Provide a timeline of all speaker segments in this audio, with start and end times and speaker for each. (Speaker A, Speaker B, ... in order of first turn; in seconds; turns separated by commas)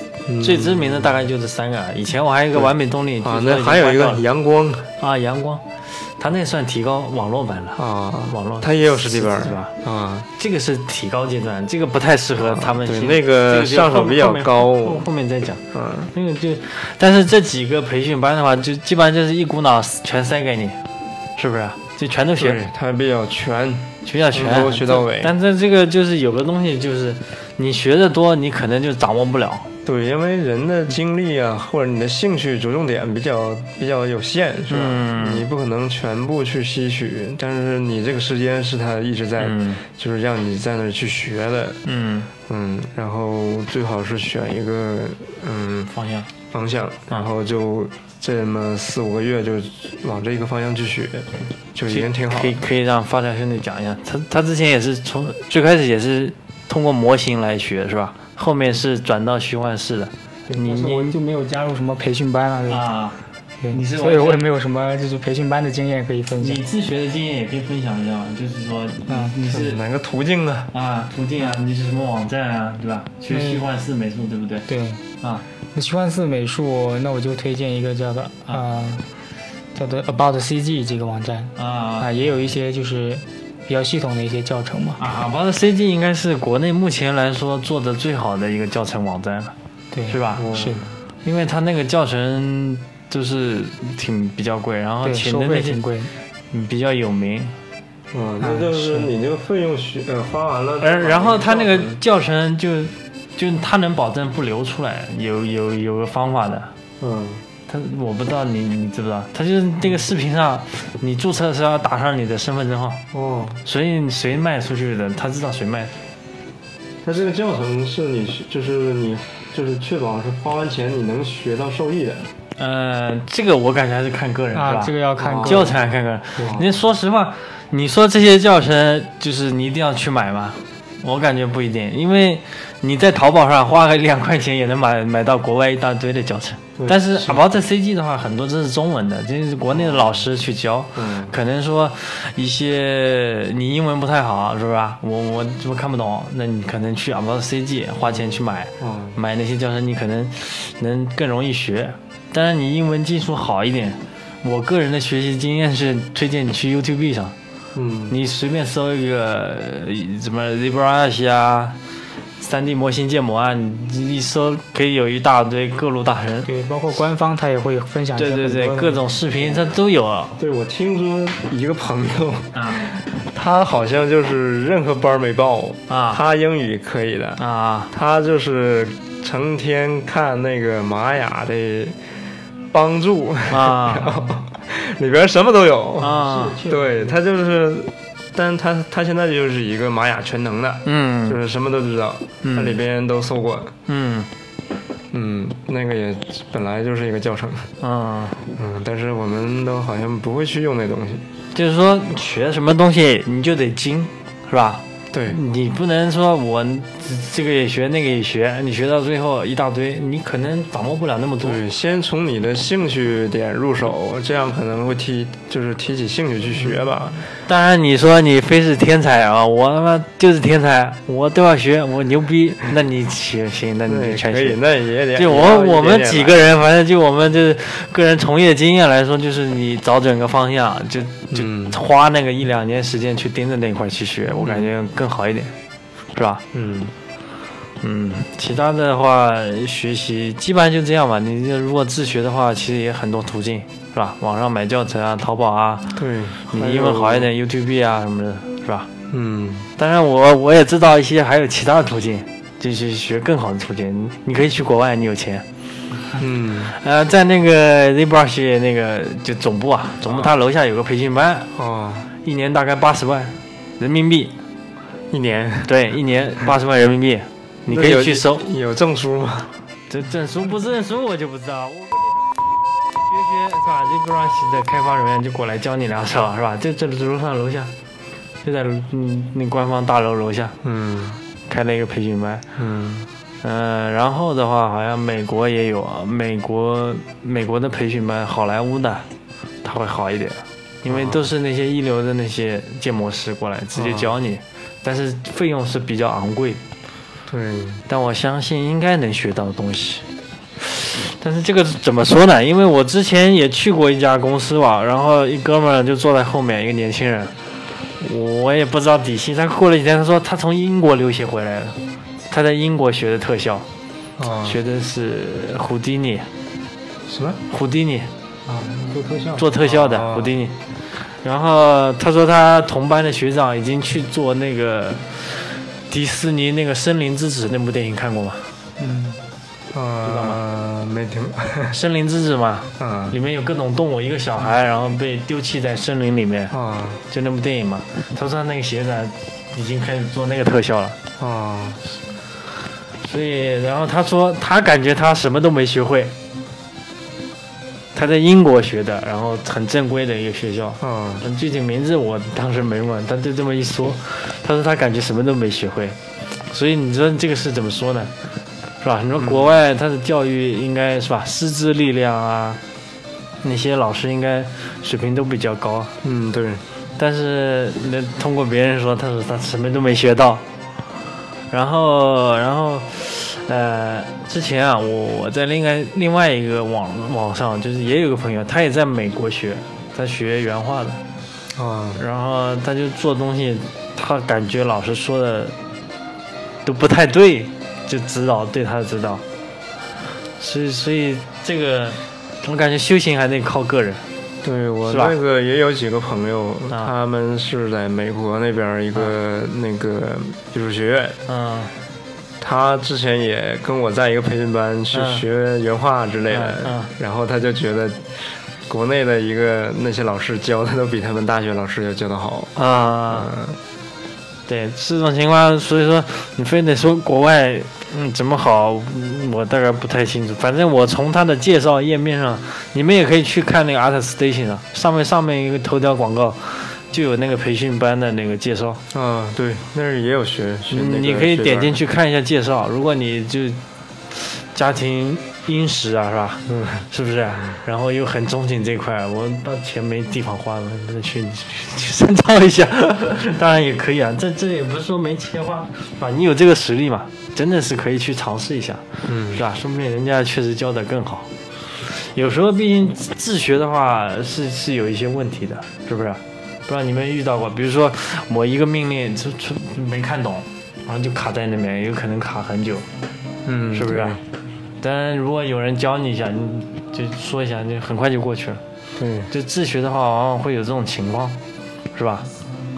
Speaker A: 0.3-1.1, Speaker B: 0.4-4.2, Speaker A: 2.5-4.9, Speaker B: 5.0-9.7, Speaker A: 7.8-10.3, Speaker B: 10.4-15.6, Speaker A: 12.4-15.1, Speaker A: 15.7-16.1, Speaker B: 16.1-20.8, Speaker B: 21.4-22.6, Speaker A: 22.4-25.3, Speaker B: 24.0-29.7, Speaker A: 29.8-41.8, Speaker B: 34.7-35.4, Speaker B: 39.4-39.8, Speaker B: 41.8-42.3, Speaker A: 42.5-45.9, Speaker B: 45.9-46.3, Speaker A: 46.5-52.6, Speaker B: 51.9-61.1, Speaker C: 60.5-62.8, Speaker B: 62.7-63.2, Speaker C: 63.6-66.6, Speaker B: 63.7-64.4, Speaker B: 66.4-69.8, Speaker C: 69.1-69.3, Speaker A: 69.5-70.7, Speaker B: 70.7-74.7, Speaker C: 73.3-73.6, Speaker C: 74.7-75.0, Speaker C: 75.7-79.0, Speaker C: 79.7-85.0, Speaker B: 81.5-82.1, Speaker B: 85.0-89.5, Speaker C: 89.9-90.8, Speaker B: 90.1-90.5, Speaker A: 90.4-90.9, Speaker B: 91.2-95.8, Speaker C: 95.0-96.1, Speaker B: 96.5-97.5, Speaker A: 98.1-102.0, Speaker C: 98.4-99.0, Speaker B: 100.8-106.7, Speaker A: 107.0-107.4, Speaker B: 107.7-113.0, Speaker A: 113.1-113.6, Speaker B: 113.6-115.9, Speaker A: 117.0-122.3, Speaker B: 122.5-157.3, Speaker C: 124.5-125.7, Speaker A: 125.2-125.7, Speaker A: 126.4-126.7, Speaker A: 136.8-137.4, Speaker A: 139.7-140.2, Speaker A: 140.9-141.3, Speaker A: 148.8-149.2, Speaker A: 157.7-158.1, Speaker B: 158.1-161.8, Speaker B: 162.4-166.5, Speaker C: 166.4-169.0, Speaker B: 168.2-170.4, Speaker A: 170.4-182.0, Speaker B: 172.5-172.8, Speaker B: 175.9-176.2, Speaker B: 177.4-177.9, Speaker A: 182.7-193.7, Speaker B: 183.5-184.1, Speaker B: 186.0-186.6, Speaker C: 186.2-187.1, Speaker B: 190.8-191.4, Speaker B: 192.4-192.8, Speaker B: 193.9-194.3, Speaker A: 195.1-197.7, Speaker B: 197.8-198.4, Speaker A: 198.5-201.2, Speaker B: 201.5-211.6, Speaker A: 205.1-205.4, Speaker A: 211.4-217.3, Speaker B: 217.4-224.6, Speaker A: 223.9-226.5, Speaker B: 225.1-235.5, Speaker A: 231.3-231.8, Speaker A: 234.3-234.7, Speaker B: 236.1-236.4, Speaker A: 236.5-236.9, Speaker B: 237.8-248.9, Speaker A: 245.9-247.3, Speaker A: 249.1-249.7, Speaker B: 249.8-255.4, Speaker A: 256.1-256.7, Speaker B: 256.7-261.5, Speaker A: 260.0-260.3, Speaker A: 261.5-262.1, Speaker B: 262.2-264.3, Speaker A: 265.1-265.8, Speaker B: 265.6-268.4, Speaker A: 267.7-269.5, Speaker B: 269.9-272.4, Speaker B: 272.9-277.7, Speaker B: 278.4-280.5, Speaker A: 280.6-281.2, Speaker B: 281.5-282.4, Speaker A: 282.6-283.1, Speaker B: 283.4-289.1, Speaker B: 289.6-296.6, Speaker A: 290.9-291.2, Speaker A: 293.7-294.1, Speaker A: 297.3-297.8, Speaker B: 297.9-300.1, Speaker B: 300.6-307.3, Speaker B: 308.0-311.8, Speaker B: 312.3-313.6, Speaker A: 314.2-314.6, Speaker B: 314.4-316.3, Speaker A: 317.1-317.4, Speaker B: 317.5-318.1, Speaker C: 318.5-319.3, Speaker A: 318.9-320.4, Speaker B: 319.4-328.5, Speaker C: 328.8-329.2, Speaker A: 329.7-331.8, Speaker B: 330.0-330.4, Speaker B: 331.7-336.5, Speaker A: 332.8-333.2, Speaker A: 336.5-337.0, Speaker B: 337.1-340.9, Speaker A: 341.2-341.8, Speaker B: 343.0-346.1, Speaker B: 347.9-358.1, Speaker A: 350.8-351.2, Speaker B: 358.8-362.6, Speaker A: 359.2-359.5, Speaker B: 363.4-365.9, Speaker A: 366.0-366.6, Speaker B: 366.9-370.4, Speaker B: 371.5-381.0, Speaker A: 381.5-382.0, Speaker B: 382.0-385.6, Speaker B: 386.6-389.2, Speaker B: 390.4-394.0, Speaker A: 394.4-401.2, Speaker B: 394.8-395.1, Speaker B: 401.3-401.7, Speaker A: 402.4-412.5, Speaker B: 404.9-405.2, Speaker B: 406.3-406.9, Speaker B: 412.6-413.3, Speaker A: 413.1-413.6, Speaker B: 414.5-428.8, Speaker A: 428.9-431.8, Speaker B: 430.7-462.9, Speaker A: 436.5-436.9, Speaker A: 449.1-449.4, Speaker A: 463.4-464.2, Speaker B: 463.7-464.2, Speaker B: 464.8-468.6, Speaker A: 468.9-469.3, Speaker B: 469.3-471.4, Speaker B: 471.9-472.3